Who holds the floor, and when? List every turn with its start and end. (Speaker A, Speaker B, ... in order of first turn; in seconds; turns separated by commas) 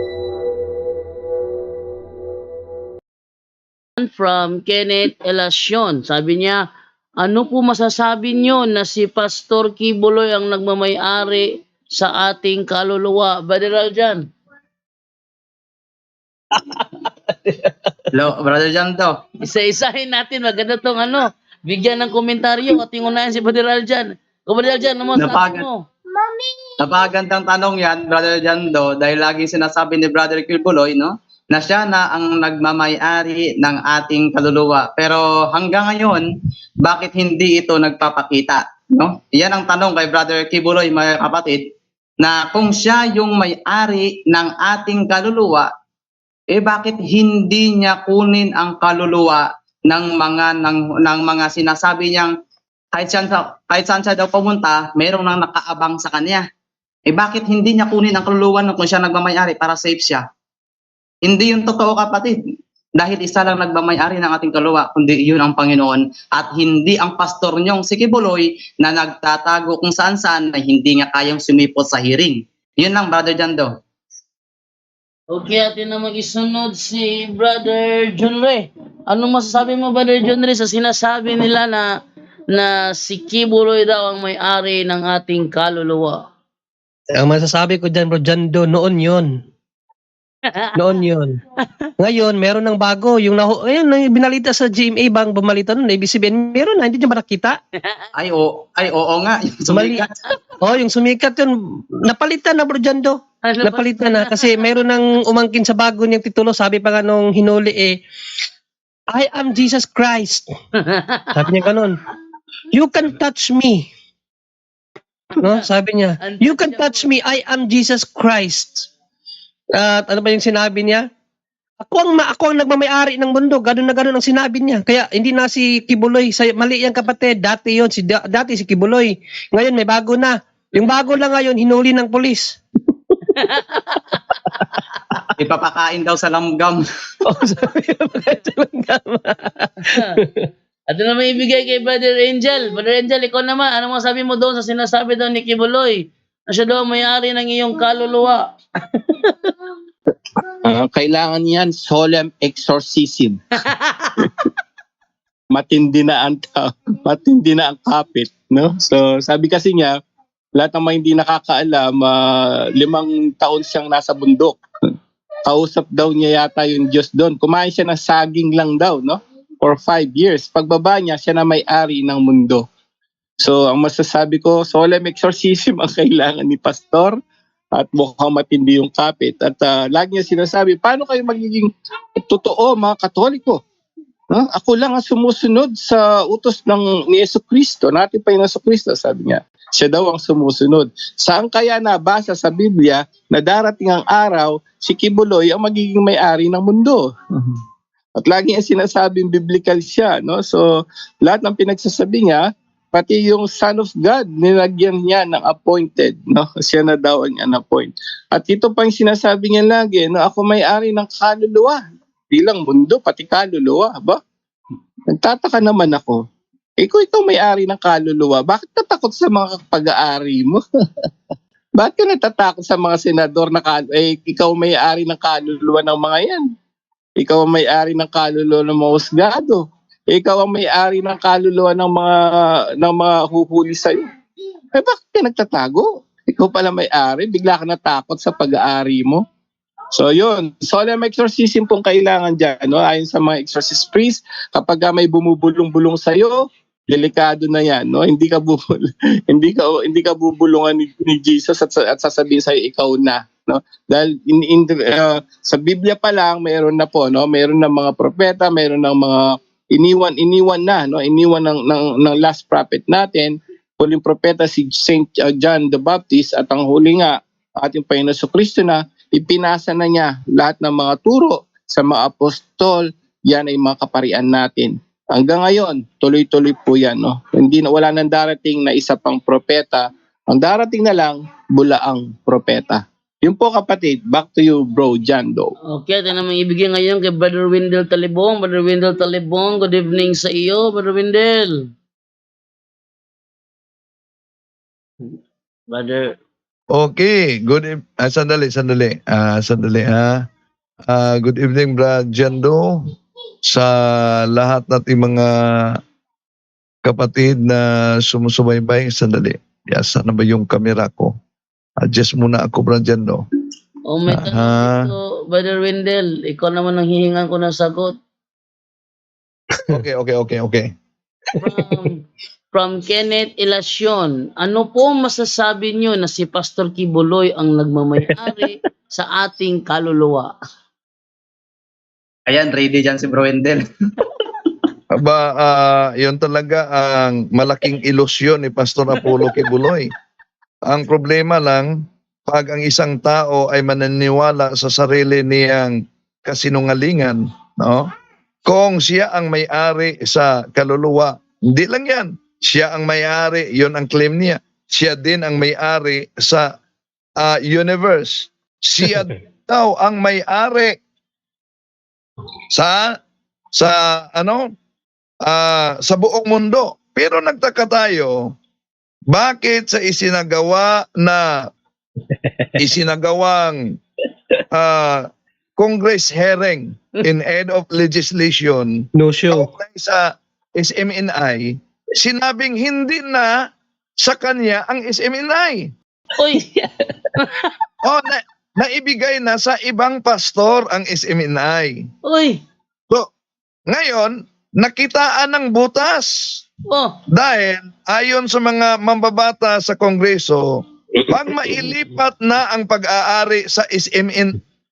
Speaker A: 4.0-6.6, Speaker A: 7.2-14.2, Speaker B: 17.5-17.7, Speaker C: 18.1-19.1, Speaker A: 19.4-25.8, Speaker C: 25.2-25.7, Speaker C: 26.8-36.3, Speaker C: 36.8-41.6, Speaker C: 42.2-45.7, Speaker C: 46.5-52.3, Speaker C: 53.0-56.4, Speaker C: 57.1-60.2, Speaker C: 61.3-62.3, Speaker C: 63.0-73.7, Speaker A: 75.3-81.9, Speaker A: 82.5-86.2, Speaker B: 87.1-89.3, Speaker A: 90.5-90.9, Speaker B: 90.8-91.4, Speaker B: 92.0-97.6, Speaker C: 98.2-100.1, Speaker B: 99.7-100.0, Speaker B: 100.6-108.0, Speaker A: 103.5-104.7, Speaker B: 109.1-110.5, Speaker A: 110.9-111.5, Speaker B: 111.3-112.0, Speaker B: 112.7-113.9, Speaker B: 115.4-118.9, Speaker A: 116.2-117.1, Speaker B: 119.7-121.1, Speaker B: 121.8-132.6, Speaker A: 133.3-134.8, Speaker C: 135.4-136.8, Speaker B: 137.2-140.5, Speaker A: 139.8-140.2, Speaker A: 140.9-148.4, Speaker D: 150.6-153.4, Speaker A: 153.7-154.1, Speaker D: 155.5-160.0, Speaker D: 160.6-164.6, Speaker D: 165.5-172.7, Speaker D: 173.4-177.2, Speaker D: 177.7-181.7, Speaker D: 182.2-183.6, Speaker D: 184.3-197.6, Speaker D: 198.2-200.7, Speaker D: 201.2-211.8, Speaker D: 212.3-214.2, Speaker D: 215.1-216.2, Speaker D: 216.8-220.6, Speaker D: 221.8-226.4, Speaker D: 227.2-232.2, Speaker D: 232.8-234.0, Speaker D: 234.7-239.2, Speaker D: 239.9-285.5, Speaker A: 285.7-291.6, Speaker A: 295.7-296.1, Speaker E: 296.8-300.2, Speaker E: 300.9-302.8, Speaker E: 303.5-305.8, Speaker E: 306.8-311.1, Speaker E: 311.8-313.2, Speaker A: 313.9-317.9, Speaker E: 314.1-314.9, Speaker E: 319.7-320.7, Speaker A: 321.4-330.3, Speaker C: 332.3-333.6, Speaker E: 334.9-339.9, Speaker E: 340.7-347.9, Speaker E: 348.4-356.5, Speaker E: 357.2-360.8, Speaker E: 362.5-362.9, Speaker E: 363.6-364.4, Speaker E: 365.2-368.3, Speaker E: 369.1-371.3, Speaker E: 372.6-373.6, Speaker E: 374.5-375.0, Speaker E: 375.6-378.7, Speaker B: 378.9-379.5, Speaker E: 379.3-383.3, Speaker E: 384.0-385.7, Speaker A: 386.2-386.4, Speaker E: 387.8-391.8, Speaker A: 392.1-392.4, Speaker E: 393.7-396.4, Speaker E: 397.1-400.4, Speaker E: 401.1-404.3